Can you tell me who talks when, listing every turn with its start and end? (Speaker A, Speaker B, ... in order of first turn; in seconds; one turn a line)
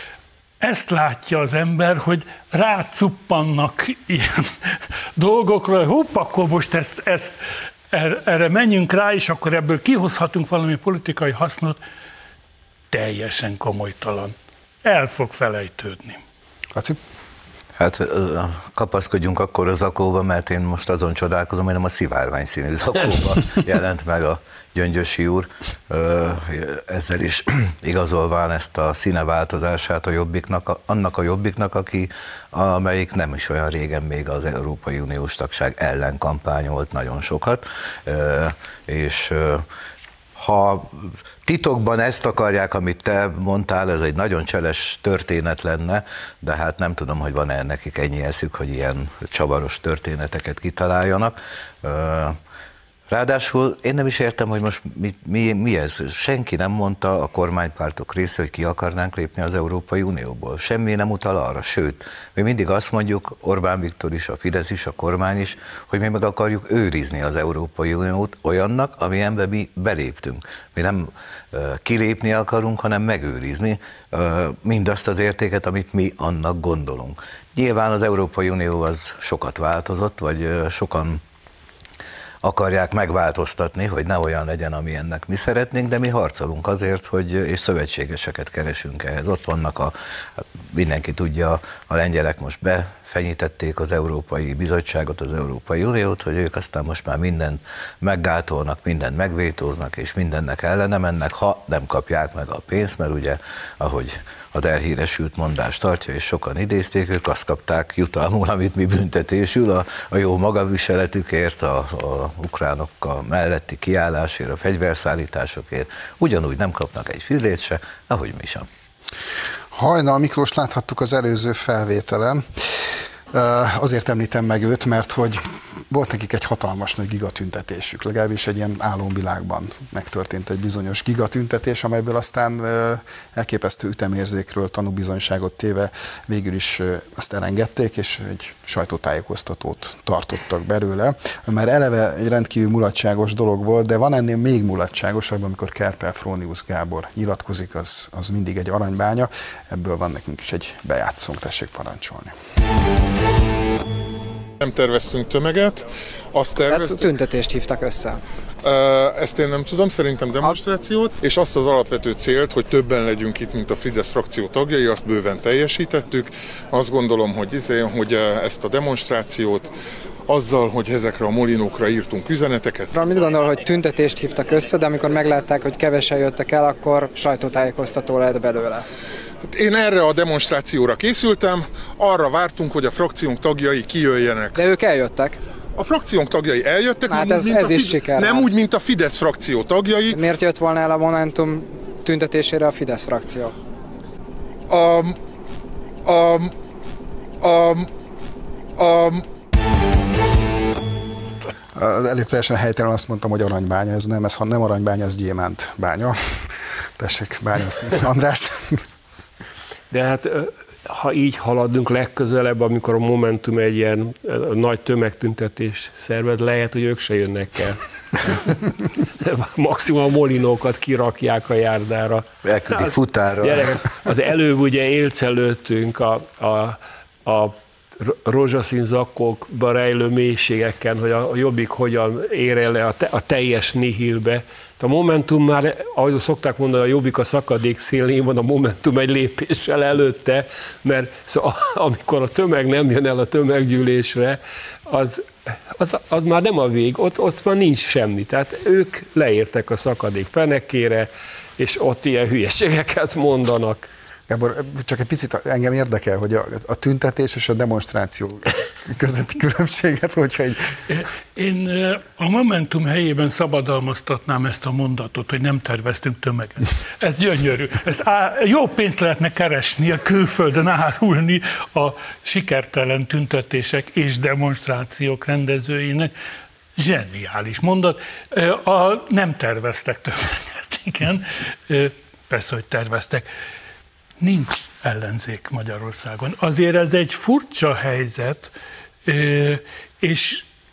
Speaker A: 0.6-7.4
Speaker A: 7.9-11.8
Speaker A: 12.9-16.2
Speaker B: 17.8-39.6
Speaker B: 40.4-52.4
Speaker B: 53.1-81.2
Speaker B: 82.4-89.9
Speaker B: 90.7-118.7
Speaker C: 119.7-152.3
Speaker D: 154.6-157.1
Speaker E: 156.7-158.2
Speaker D: 158.6-169.7
Speaker D: 170.3-172.9
Speaker E: 172.9-178.9
Speaker D: 179.4-184.6
Speaker E: 184.6-185.4
Speaker D: 185.8-190.2
Speaker E: 187.1-188.5
Speaker E: 190.1-193.5
Speaker D: 194.7-195.2
Speaker D: 196.1-196.5
Speaker D: 197.4-197.9
Speaker D: 198.8-199.3
Speaker C: 201.8-208.8
Speaker F: 209.9-253.9
Speaker B: 222.4-223.8
Speaker C: 254.3-260.7
Speaker A: 260.9-276.1
Speaker A: 276.8-283.3
Speaker A: 284.2-288.5
Speaker A: 289.1-290.5